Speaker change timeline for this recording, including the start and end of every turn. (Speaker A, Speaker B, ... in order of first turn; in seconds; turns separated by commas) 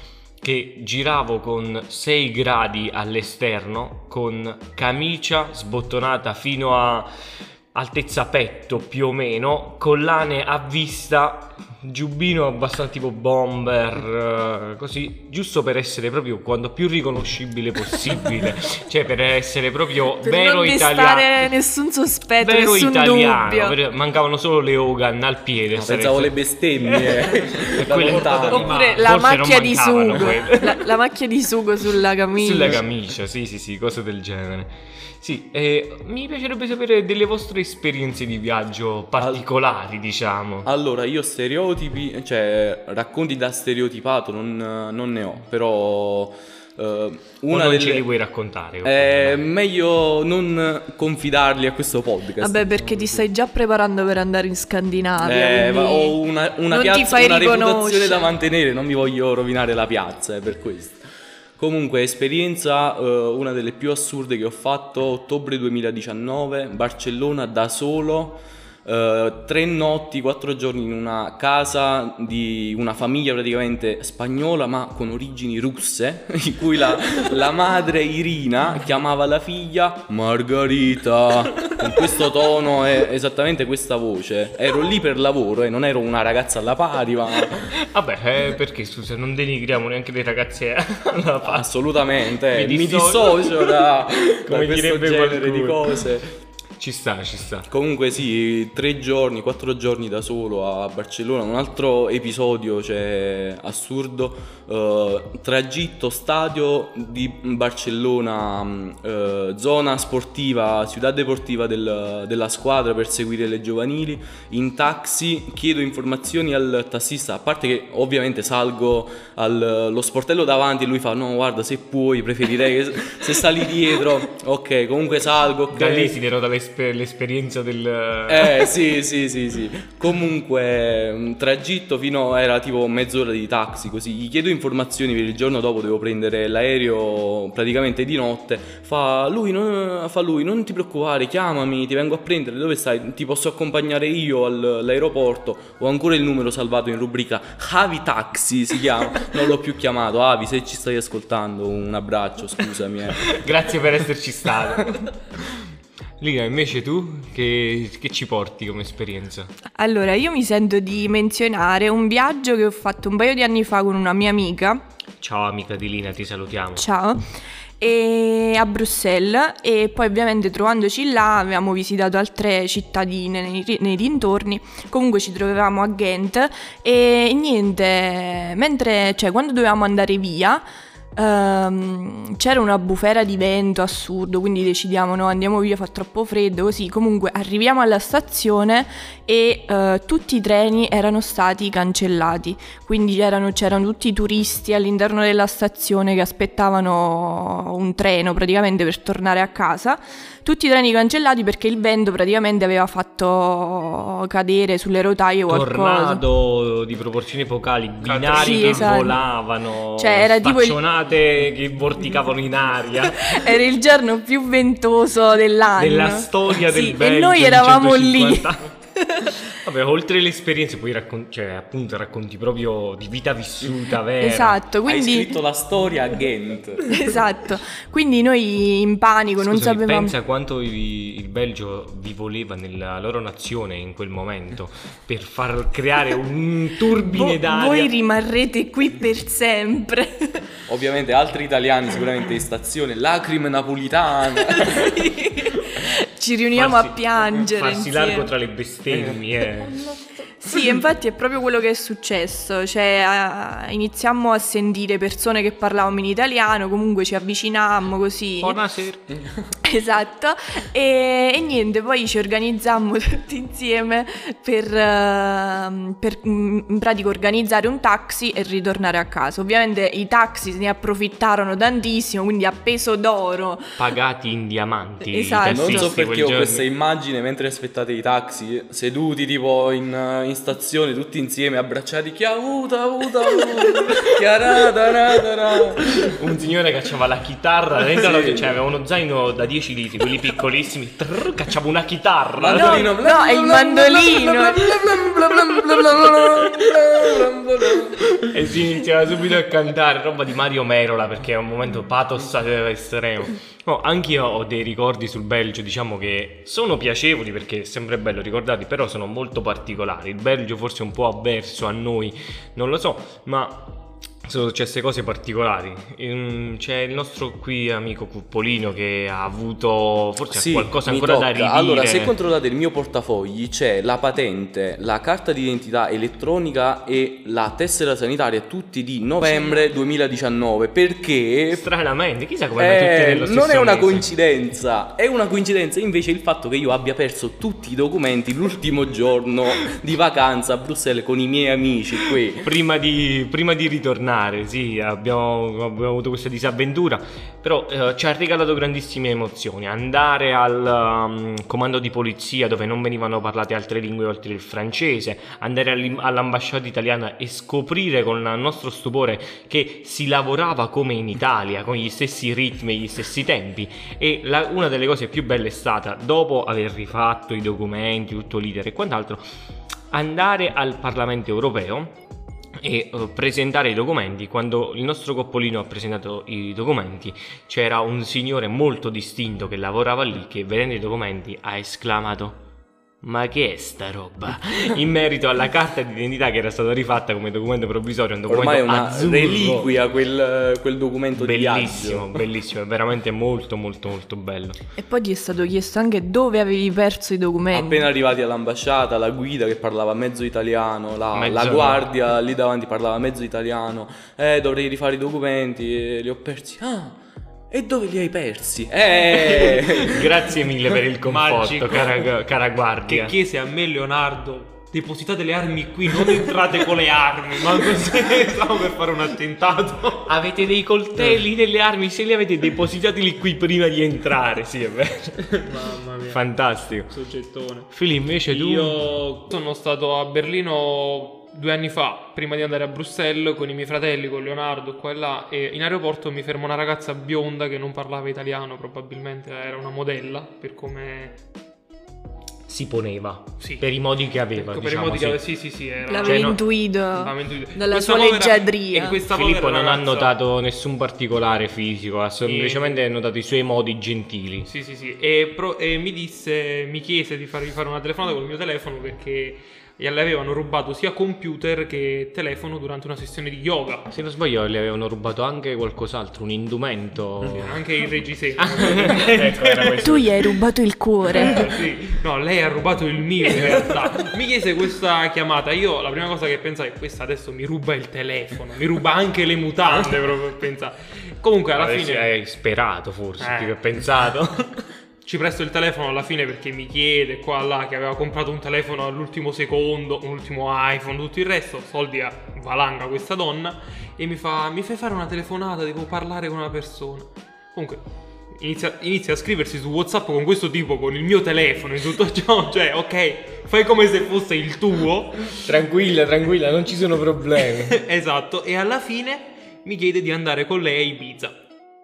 Speaker A: 0.4-7.1, Speaker A: 7.7-21.5, Speaker B: 20.2-23.8, Speaker A: 22.4-30.9, Speaker C: 25.7-28.7, Speaker D: 27.8-29.1, Speaker B: 28.5-32.8, Speaker A: 32.4-40.7, Speaker C: 39.2-39.5, Speaker C: 40.6-48.1, Speaker A: 47.5-49.4, Speaker C: 48.8-53.2, Speaker B: 52.4-56.2, Speaker C: 55.2-61.0, Speaker B: 56.7-58.3, Speaker C: 61.6-87.7, Speaker A: 87.7-91.7, Speaker C: 91.4-96.3, Speaker A: 92.5-96.0, Speaker A: 96.8-97.7, Speaker C: 97.7-126.2, Speaker A: 125.7-128.7, Speaker C: 128.3-153.4, Speaker A: 153.2-155.1, Speaker A: 156.2-159.5, Speaker B: 159.8-164.8, Speaker A: 165.2-166.8, Speaker B: 166.8-167.2, Speaker B: 167.8-206.2, Speaker A: 205.5-213.6, Speaker D: 208.0-209.1, Speaker B: 208.3-209.2, Speaker B: 210.0-210.8, Speaker B: 213.2-219.4, Speaker A: 215.8-218.7, Speaker A: 219.5-224.6, Speaker B: 224.2-225.4, Speaker C: 224.8-227.1, Speaker B: 226.9-230.2, Speaker A: 229.4-237.9, Speaker B: 237.1-240.4, Speaker C: 240.7-245.1, Speaker B: 244.5-248.3, Speaker A: 246.6-249.9, Speaker B: 250.4-258.6, Speaker A: 258.4-259.0, Speaker B: 259.6-273.8, Speaker A: 273.8-276.6, Speaker B: 275.1-276.0, Speaker C: 275.4-286.0, Speaker A: 286.0-292.9, Speaker C: 287.9-288.6, Speaker C: 292.4-298.1, Speaker B: 292.5-294.8, Speaker A: 298.2-322.1, Speaker C: 320.3-331.6, Speaker A: 331.5-334.1, Speaker C: 332.6-342.5, Speaker A: 342.4-369.2, Speaker A: 369.9-372.0, Speaker A: 372.6-382.4, Speaker A: 383.0-389.7, Speaker C: 388.3-392.2, Speaker A: 391.2-394.6, Speaker B: 394.8-397.9, Speaker C: 397.5-407.0, Speaker A: 401.1-401.9, Speaker C: 407.5-410.2, Speaker A: 409.5-413.1, Speaker D: 411.0-412.1, Speaker D: 412.9-420.1, Speaker A: 420.1-425.5, Speaker D: 425.3-426.2, Speaker A: 426.1-426.9, Speaker D: 426.9-427.7, Speaker A: 427.7-428.8, Speaker D: 428.3-441.2, Speaker A: 442.5-445.2, Speaker D: 443.4-443.7, Speaker D: 444.3-450.1, Speaker B: 445.9-449.0, Speaker A: 446.0-446.4, Speaker A: 449.1-454.5, Speaker D: 452.2-452.8, Speaker D: 454.4-463.9, Speaker A: 463.9-467.6, Speaker D: 467.3-470.0, Speaker A: 468.4-470.1, Speaker B: 469.8-471.4, Speaker D: 471.2-482.1, Speaker A: 481.5-484.5, Speaker D: 483.2-483.6, Speaker D: 485.0-497.8, Speaker D: 498.3-505.4, Speaker A: 505.4-507.8, Speaker D: 507.4-511.4